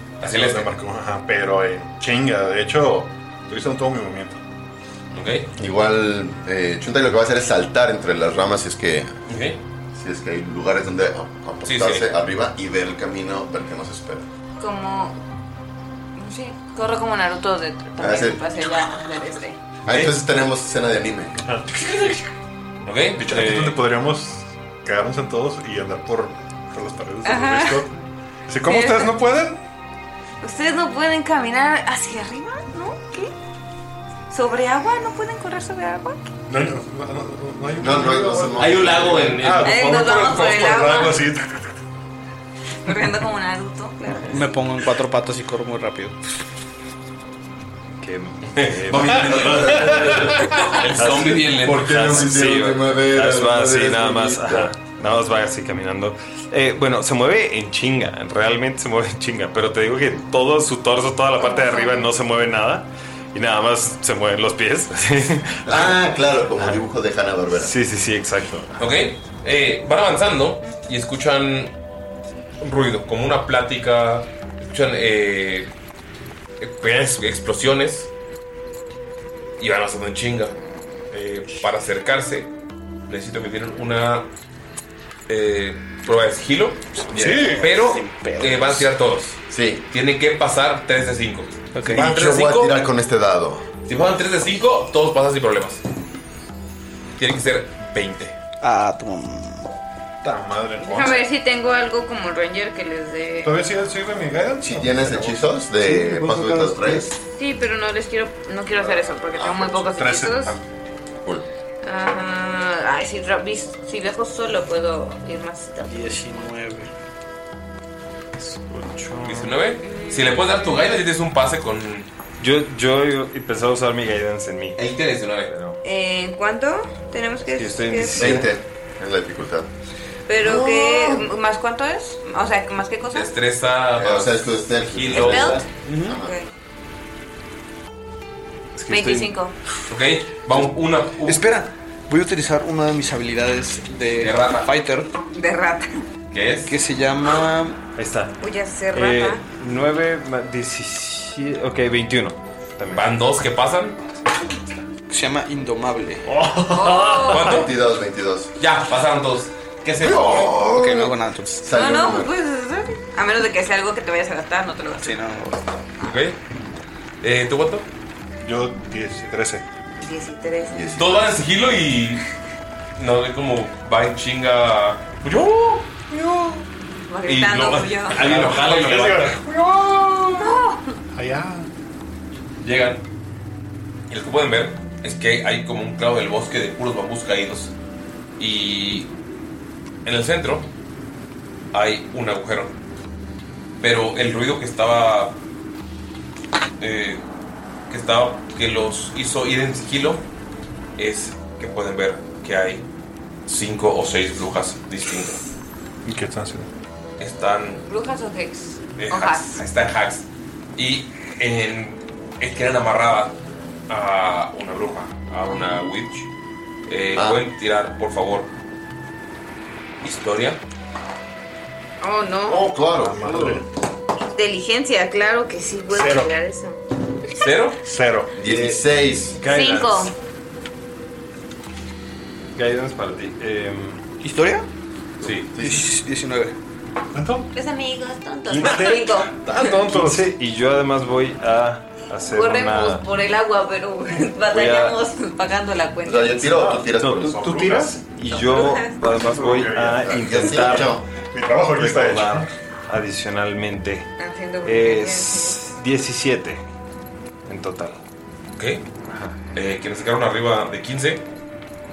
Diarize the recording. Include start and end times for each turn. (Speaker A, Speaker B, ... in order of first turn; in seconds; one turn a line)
Speaker A: 0.2-0.7
Speaker B: 0.2-4.4
Speaker A: 5.1-5.5
Speaker C: 5.6-9.1
Speaker A: 9.3-9.6
Speaker C: 9.9-14.3
Speaker A: 11.6-12.1
Speaker D: 14.6-15.2
Speaker D: 16.2-19.6
Speaker C: 18.0-18.4
Speaker C: 19.9-21.4
Speaker B: 21.4-22.2
Speaker A: 22.9-23.8
Speaker B: 23.2-27.9
Speaker D: 27.2-27.9
Speaker B: 28.5-29.6
Speaker D: 28.6-29.2
Speaker D: 30.4-33.3
Speaker D: 34.3-36.3
Speaker B: 36.5-41.6
Speaker C: 37.8-39.5
Speaker A: 38.6-39.8
Speaker D: 39.6-41.2
Speaker D: 42.9-44.5
Speaker E: 44.3-46.2
Speaker F: 48.0-66.0
Speaker A: 48.6-52.3
Speaker C: 49.4-49.9
Speaker C: 51.5-54.7
Speaker D: 61.4-62.1
Speaker C: 65.7-67.7
Speaker F: 67.5-68.8
Speaker A: 68.8-71.8
Speaker A: 72.6-75.7
Speaker A: 76.6-78.1
Speaker A: 79.6-80.6
Speaker A: 81.1-82.5
Speaker A: 83.1-84.3
Speaker A: 85.3-92.8
Speaker B: 87.1-87.7
Speaker E: 87.3-88.6
Speaker C: 89.5-89.8
Speaker E: 91.7-92.1
Speaker C: 91.8-93.7
Speaker A: 93.9-95.8
Speaker A: 97.2-98.4
Speaker E: 98.6-99.7
Speaker B: 100.2-101.3
Speaker D: 100.8-103.6
Speaker B: 103.4-105.5
Speaker C: 104.6-107.2
Speaker E: 105.9-106.9
Speaker D: 107.3-110.6
Speaker C: 108.7-110.3
Speaker B: 110.0-110.5
Speaker D: 111.8-116.4
Speaker E: 115.8-116.9
Speaker F: 118.4-119.6
Speaker A: 119.2-122.1
Speaker D: 119.9-120.4
Speaker F: 122.4-124.8
Speaker A: 124.8-125.5
Speaker F: 125.5-125.8
Speaker D: 125.8-128.5
Speaker F: 127.5-128.5
Speaker C: 128.1-129.7
Speaker D: 130.3-133.3
Speaker C: 130.4-130.8
Speaker A: 133.1-135.7
Speaker C: 134.0-136.3
Speaker D: 135.1-136.5
Speaker E: 135.8-136.2
Speaker F: 138.8-139.4
Speaker D: 138.9-139.6
Speaker A: 139.9-141.4
Speaker E: 141.3-145.1
Speaker A: 144.2-144.7
Speaker D: 145.3-146.0
Speaker A: 146.3-146.8
Speaker E: 146.7-147.8
Speaker F: 148.0-148.4
Speaker D: 148.4-149.4
Speaker F: 148.9-153.3
Speaker A: 152.9-154.0
Speaker E: 155.1-156.2
Speaker F: 156.2-157.3
Speaker D: 156.7-157.6
Speaker A: 157.3-157.7
Speaker C: 157.4-158.5
Speaker A: 158.6-160.6
Speaker C: 160.0-162.3
Speaker E: 160.7-161.7
Speaker D: 161.7-165.2
Speaker E: 165.0-165.6
Speaker A: 166.0-166.4
Speaker A: 167.2-167.9
Speaker B: 168.4-169.7
Speaker D: 170.0-170.9
Speaker C: 170.7-171.5
Speaker A: 171.0-172.2
Speaker A: 173.0-175.9
Speaker B: 176.1-176.7
Speaker D: 177.1-178.3
Speaker A: 177.3-179.4
Speaker B: 178.1-180.5
Speaker D: 180.4-181.0
Speaker B: 181.1-181.7
Speaker A: 182.6-183.0
Speaker A: 184.1-187.7
Speaker A: 188.4-189.1
Speaker A: 190.1-190.7
Speaker A: 191.7-192.8
Speaker A: 193.8-195.4
Speaker A: 196.8-197.2
Speaker A: 197.9-200.3
Speaker A: 201.0-202.9
Speaker A: 203.5-205.4
Speaker B: 206.1-206.7
Speaker A: 207.2-207.8
Speaker D: 207.9-209.6
Speaker A: 209.0-213.4
Speaker A: 213.9-216.3
Speaker D: 215.5-215.8
Speaker A: 216.9-218.5
Speaker C: 217.2-217.4
Speaker A: 220.0-220.6
Speaker D: 222.0-222.7
Speaker C: 222.5-223.6
Speaker B: 223.0-223.7
Speaker D: 224.3-226.8
Speaker B: 225.9-226.3
Speaker A: 227.4-227.8
Speaker B: 227.8-228.4
Speaker C: 228.4-229.4
Speaker F: 229.4-230.1
Speaker D: 229.4-230.1
Speaker F: 232.6-234.0
Speaker E: 234.2-234.7
Speaker A: 235.2-235.5
Speaker C: 235.6-235.9
Speaker E: 235.6-236.6
Speaker B: 237.1-237.5
Speaker D: 237.5-239.8
Speaker F: 238.5-243.1
Speaker B: 238.6-238.9
Speaker B: 239.4-240.3
Speaker D: 242.3-246.7
Speaker F: 244.5-245.0
Speaker C: 246.0-247.5
Speaker B: 246.5-248.0
Speaker F: 246.9-251.0
Speaker D: 248.3-249.0
Speaker B: 249.1-252.5
Speaker C: 250.0-251.1
Speaker F: 251.7-254.1
Speaker D: 254.2-255.6
Speaker F: 254.6-256.6
Speaker F: 257.5-258.0
Speaker A: 258.6-258.9
Speaker F: 259.1-259.4
Speaker A: 259.5-261.3